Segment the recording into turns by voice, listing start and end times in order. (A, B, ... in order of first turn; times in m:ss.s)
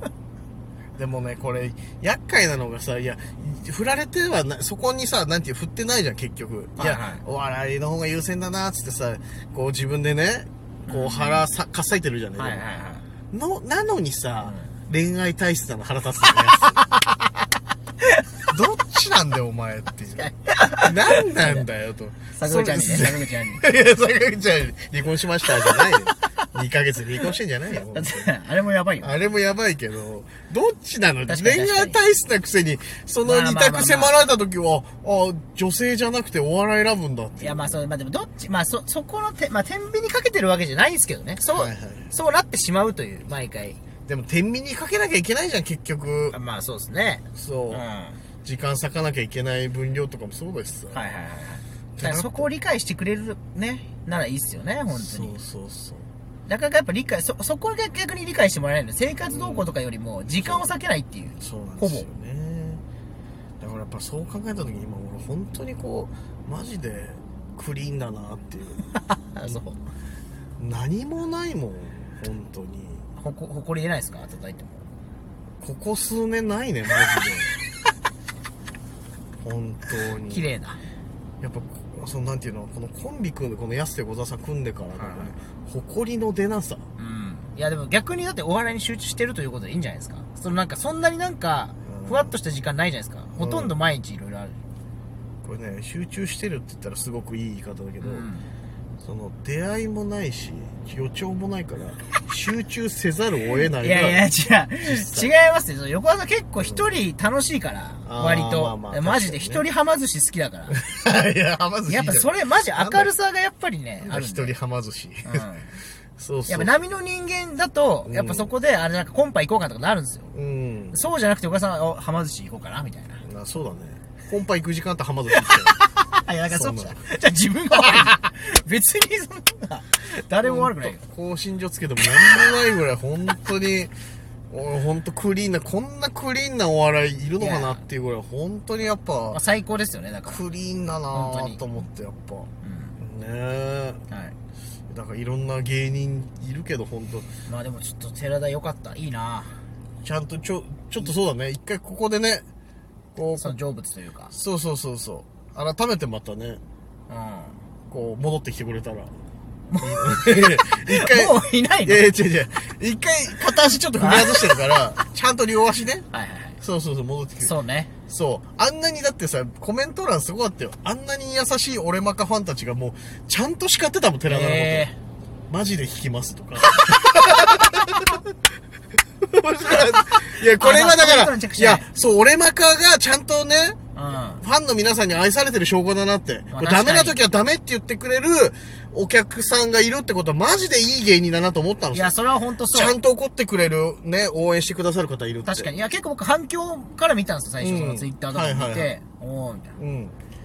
0:01.0-0:12.6 A
0:06.8-0:07.2 B
0:10.9-0:11.5 B
0:12.4-0:13.0 B
0:13.3-0:16.8 A
0:14.4-0:14.7 B
0:16.8-0:17.1 B
0:18.5-0:28.3 A
0:20.1-0:21.7 B
0:22.4-0:23.6 B
0:25.6-0:25.9 B
0:27.9-0:29.2 B
0:29.0-0:37.8 A
0:31.2-0:32.0 B
0:33.2-0:34.2 B
0:37.4-0:43.8 B
0:41.5-0:42.1 A
0:44.0-0:46.4 A
0:46.3-0:48.2 B
0:47.3-0:47.8 A
0:48.4-0:51.0 A
0:50.9-0:55.4 B
0:52.0-0:52.5 A
0:54.9-0:56.1 A
0:56.5-1:02.1 B
0:59.2-0:59.7 A
1:00.3-1:00.7 A
1:01.4-1:02.8 A
1:03.6-1:08.8 A
1:09.3-1:09.8 B
1:10.6-1:13.0 A
1:13.2-1:14.8 B
1:15.6-1:17.6 A
1:19.4-1:20.5 A
1:20.2-1:20.8 B
1:21.4-1:26.9 A
1:24.9-1:25.3 B
1:27.0-1:34.6 B
1:31.8-1:32.3 A
1:33.3-1:33.8 A
1:35.4-1:38.3 A
1:38.0-1:38.5 B
1:39.0-1:44.2 A
1:43.8-1:50.8 B
1:44.8-1:45.3 A
1:46.6-1:46.9 A
1:48.0-1:49.6 A
1:50.7-1:53.1 A
1:51.8-1:54.6 B
1:54.0-1:55.4 A
1:55.2-1:55.7 B
1:56.2-1:56.8 A
1:56.5-2:00.3 B
1:58.0-1:58.5 A
2:00.3-2:01.0 A
2:00.9-2:03.2 B
2:03.2-2:05.8 A
2:05.3-2:11.0 B
2:06.5-2:07.0 A
2:10.4-2:13.9 A
2:14.5-2:19.4 A
2:17.4-2:17.8 B
2:19.3-2:20.4 B
2:20.2-2:24.0 A
2:21.1-2:21.6 B
2:22.6-2:23.0 B
2:24.1-2:24.3 B
2:24.9-2:27.3 A
2:27.4-2:29.6 B
2:30.0-2:32.4 A
2:33.1-2:33.6 A
2:33.4-2:34.3 B
2:34.3-2:36.6 A
2:37.1-2:37.6 B
2:37.9-2:39.1 A
2:39.7-2:42.1 B
2:39.8-2:46.0 A
2:44.0-2:45.0 B
2:46.1-2:46.6 B
2:46.6-2:47.5 A
2:47.4-2:47.9 B
2:48.1-2:54.9 A
2:54.3-2:55.0 B
2:55.5-2:58.2 A
2:56.8-2:57.1 B
2:59.2-3:03.8 A
3:00.6-3:01.8 B
3:03.9-3:04.4 B
3:04.4-3:12.1 A
3:06.5-3:07.2 B
3:11.9-3:13.0 B
3:12.7-3:15.7 A
3:15.4-3:19.8 B
3:17.6-3:18.9 A
3:19.8-3:20.2 A